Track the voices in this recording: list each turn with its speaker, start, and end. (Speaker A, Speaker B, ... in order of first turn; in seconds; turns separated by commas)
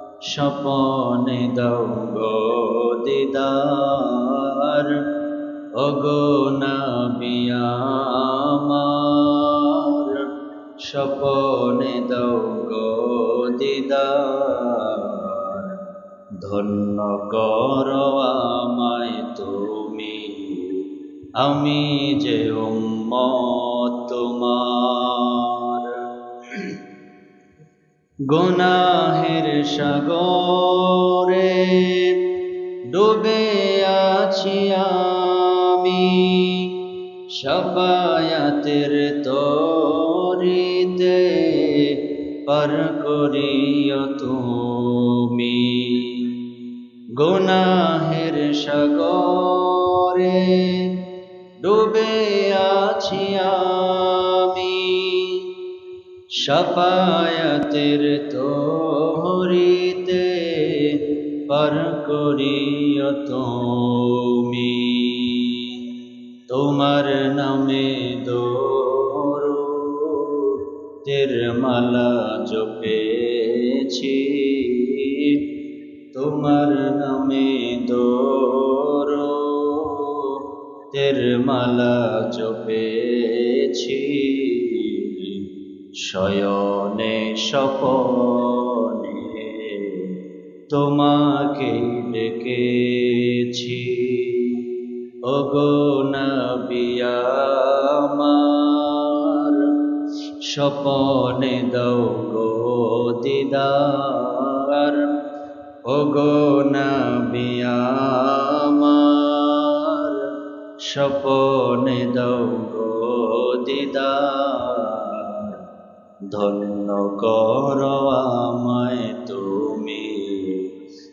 Speaker A: 0.3-5.0, Speaker A: 5.8-10.2, Speaker A: 10.9-15.7, Speaker A: 16.4-20.8, Speaker A: 21.4-26.0, Speaker A: 28.3-32.2, Speaker A: 32.9-36.7, Speaker A: 37.4-42.0, Speaker A: 42.5-46.3, Speaker A: 47.2-50.9, Speaker A: 51.6-55.4, Speaker A: 56.4-65.8, Speaker A: 66.5-75.4, Speaker A: 76.1-80.4, Speaker A: 80.9-85.4, Speaker A: 86.0-90.1, Speaker A: 90.7-94.5, Speaker A: 95.3-99.7, Speaker A: 100.5-105.1, Speaker A: 105.9-110.3, Speaker A: 110.9-115.5, Speaker A: 116.3-120.7